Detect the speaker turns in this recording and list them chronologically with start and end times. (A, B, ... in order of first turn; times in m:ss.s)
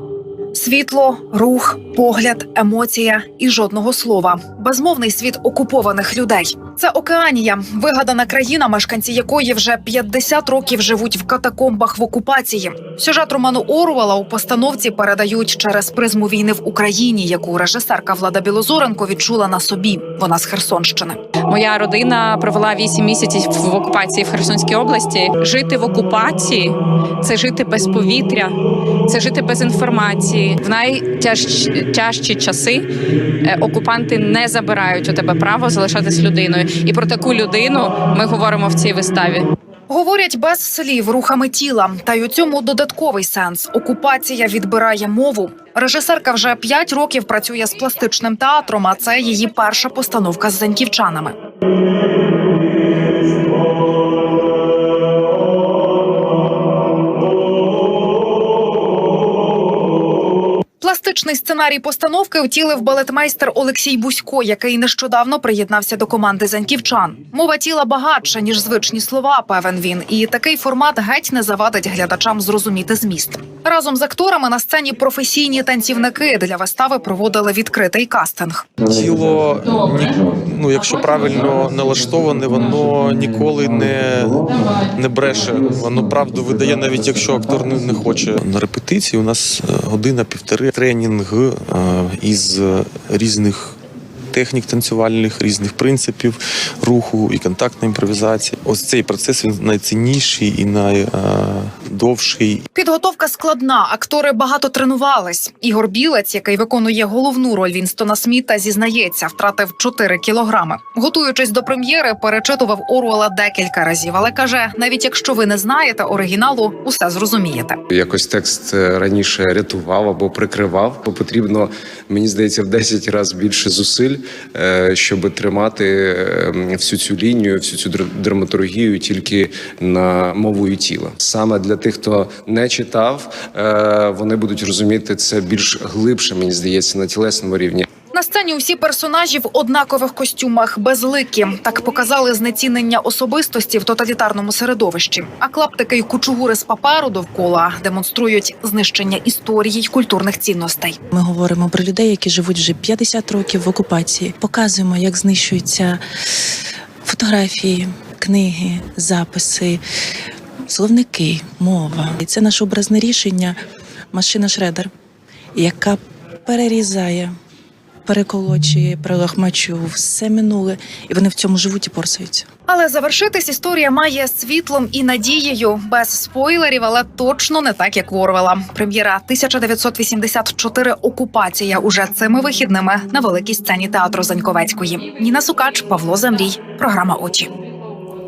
0:00.6-0:21.2 A
0:21.5-0:28.5 B
0:29.1-0:32.8 B
0:33.4-0:39.4 B
0:39.9-0:51.4 A
1:00.8-1:18.7 A
1:18.8-1:33.8 C
1:34.3-1:42.6 C
1:42.8-1:57.8 A
1:57.9-2:17.9 D
2:18.1-2:31.0 A
2:31.1-2:36.0 E
2:37.0-2:39.8 E
2:40.7-2:43.6 E
2:44.1-2:44.9 E
2:45.6-2:47.3 E
2:48.1-2:52.5 E
2:52.7-3:07.5 A